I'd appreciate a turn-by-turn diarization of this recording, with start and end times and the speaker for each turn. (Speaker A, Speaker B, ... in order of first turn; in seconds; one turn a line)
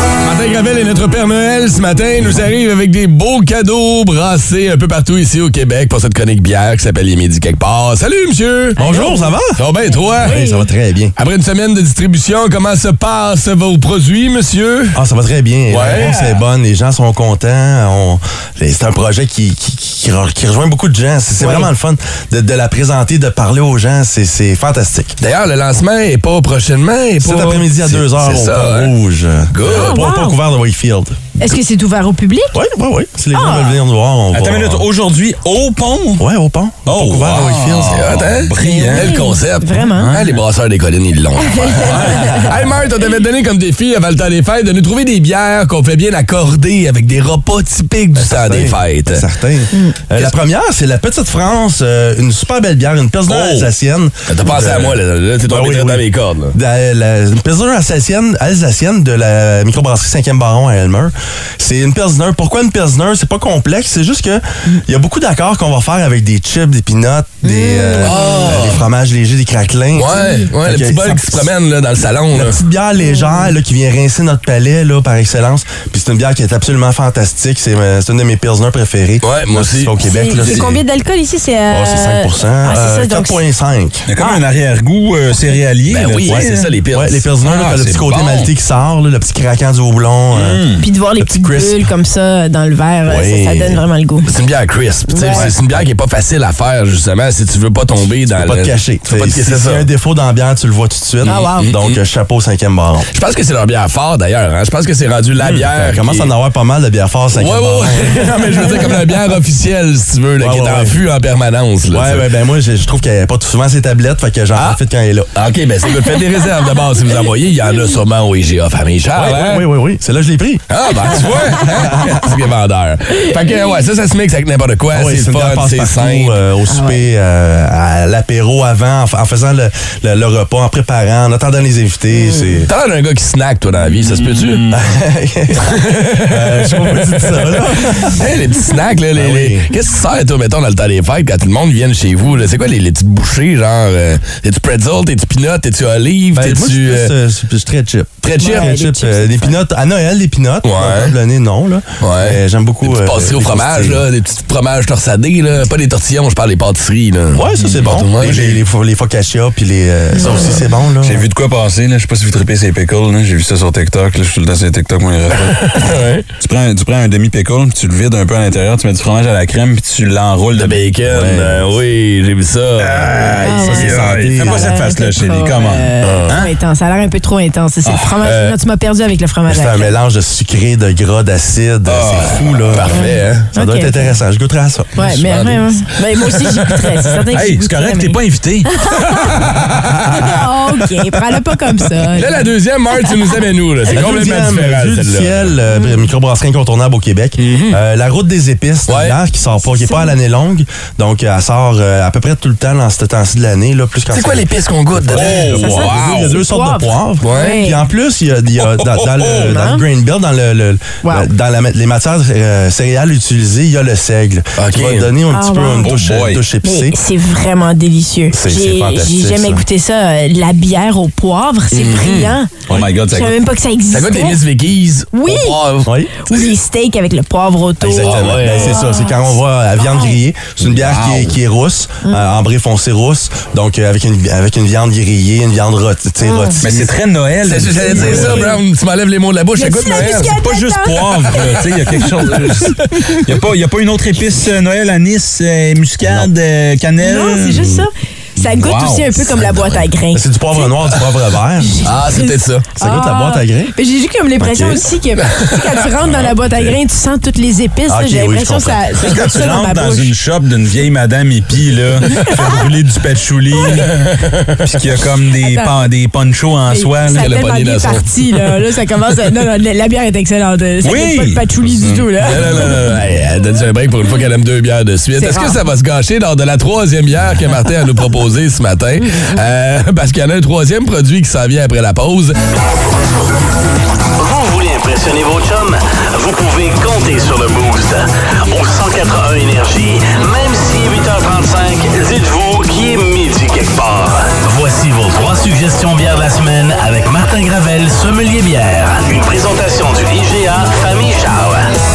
Speaker A: 0.2-8.8
Speaker B: 8.8-9.6
Speaker C: 8.8-10.7
Speaker A: 9.6-10.4
Speaker B: 10.2-11.2
Speaker A: 11.2-15.0
Speaker B: 14.9-25.2
Speaker A: 15.7-16.4
Speaker C: 21.4-21.7
Speaker A: 25.2-28.9
Speaker B: 27.2-31.2
Speaker A: 29.5-30.1
Speaker C: 29.7-30.4
Speaker C: 31.4-32.6
Speaker B: 32.5-34.9
Speaker C: 33.3-33.8
Speaker D: 34.3-36.3
Speaker B: 36.2-38.2
Speaker D: 36.9-39.1
Speaker A: 37.8-49.3
Speaker C: 38.6-40.1
Speaker D: 40.0-40.4
Speaker C: 41.4-42.2
Speaker D: 41.9-42.3
Speaker B: 48.2-56.0
Speaker C: 49.7-50.0
Speaker A: 53.3-53.7
Speaker A: 54.3-56.6
Speaker B: 56.5-71.5
Speaker C: 67.4-68.2
Speaker A: 68.0-68.8
Speaker A: 69.9-72.6
Speaker C: 70.1-70.5
Speaker B: 72.3-80.8
Speaker C: 73.0-73.5
Speaker A: 79.2-79.9
Speaker C: 80.0-83.4
Speaker B: 81.7-84.1
Speaker D: 84.1-86.7
Speaker A: 85.9-87.3
Speaker B: 86.3-90.7
Speaker D: 87.4-88.5
Speaker D: 90.3-90.8
Speaker C: 90.8-94.3
Speaker B: 91.2-91.9
Speaker B: 93.1-93.8
Speaker A: 94.2-99.9
Speaker C: 95.1-95.5
Speaker B: 98.4-103.1
Speaker C: 101.2-101.7
Speaker A: 101.2-102.0
Speaker A: 103.1-106.3
Speaker D: 105.4-105.7
Speaker B: 105.8-108.9
Speaker A: 107.3-112.3
Speaker C: 108.7-108.9
Speaker B: 110.4-111.0
Speaker B: 111.9-115.3
Speaker A: 115.3-119.7
Speaker B: 119.2-120.6
Speaker A: 120.7-126.4
Speaker B: 121.7-122.2
Speaker B: 124.9-132.7
Speaker C: 126.7-127.0
Speaker C: 132.1-132.5
Speaker A: 132.7-134.7
Speaker D: 133.8-134.9
Speaker B: 134.7-138.2
Speaker A: 135.6-147.1
Speaker B: 139.1-139.6
Speaker B: 146.3-154.0
Speaker A: 148.2-148.7
Speaker C: 148.4-149.6
Speaker A: 150.6-151.2
Speaker A: 152.0-158.4
Speaker B: 157.3-161.3
Speaker D: 157.6-158.6
Speaker C: 160.2-160.6
Speaker D: 161.0-170.9
Speaker A: 165.3-166.3
Speaker A: 170.5-174.3
Speaker B: 171.1-171.7
Speaker D: 172.8-173.3
Speaker C: 173.4-179.9
Speaker B: 173.6-174.8
Speaker D: 173.9-176.5
Speaker A: 176.0-176.4
Speaker D: 177.8-178.2
Speaker A: 178.2-178.6
Speaker B: 179.5-184.9
Speaker D: 181.9-182.8
Speaker A: 182.1-183.5
Speaker C: 182.9-184.0
Speaker C: 184.9-189.5
Speaker A: 185.0-187.2
Speaker D: 187.3-188.7
Speaker A: 189.0-190.4
Speaker C: 190.2-192.4
Speaker A: 192.1-195.6
Speaker C: 193.0-193.3
Speaker B: 193.9-217.0
Speaker C: 195.7-196.1
Speaker A: 197.4-197.8
Speaker A: 198.9-199.2
Speaker C: 199.7-200.1
Speaker A: 204.1-206.4
Speaker D: 205.1-206.3
Speaker C: 205.5-207.9
Speaker A: 207.2-207.6
Speaker D: 208.6-209.5
Speaker C: 209.5-209.8
Speaker C: 211.0-211.3
Speaker A: 214.6-215.1
Speaker C: 215.3-215.9
Speaker D: 215.8-216.4
Speaker C: 216.6-222.5
Speaker B: 218.3-219.7
Speaker A: 221.7-222.4
Speaker D: 222.7-223.4
Speaker C: 223.1-224.4
Speaker A: 223.9-226.5
Speaker C: 225.1-225.6
Speaker B: 225.8-226.1
Speaker C: 226.2-230.2
Speaker B: 227.8-236.9
Speaker A: 227.9-228.8
Speaker A: 230.9-231.2
Speaker C: 232.0-232.3
Speaker C: 236.2-236.6
Speaker D: 236.6-238.5
Speaker A: 237.4-240.3
Speaker C: 237.9-238.6
Speaker C: 239.6-243.2
Speaker D: 240.4-247.8
Speaker B: 246.0-246.3
Speaker C: 247.0-250.2
Speaker D: 248.6-249.2
Speaker B: 250.1-251.9
Speaker C: 251.6-260.1
Speaker A: 251.8-252.7
Speaker B: 252.8-253.7
Speaker B: 254.4-254.9
Speaker A: 255.2-256.4
Speaker B: 257.9-258.8
Speaker D: 259.0-267.4
Speaker C: 262.1-262.4
Speaker C: 263.6-263.9
Speaker A: 263.7-264.6
Speaker C: 265.4-265.7
Speaker C: 266.7-272.7
Speaker A: 267.1-268.6
Speaker D: 270.8-272.8
Speaker A: 272.2-282.4
Speaker C: 275.2-275.6
Speaker C: 279.0-279.4
Speaker E: 284.2-301.7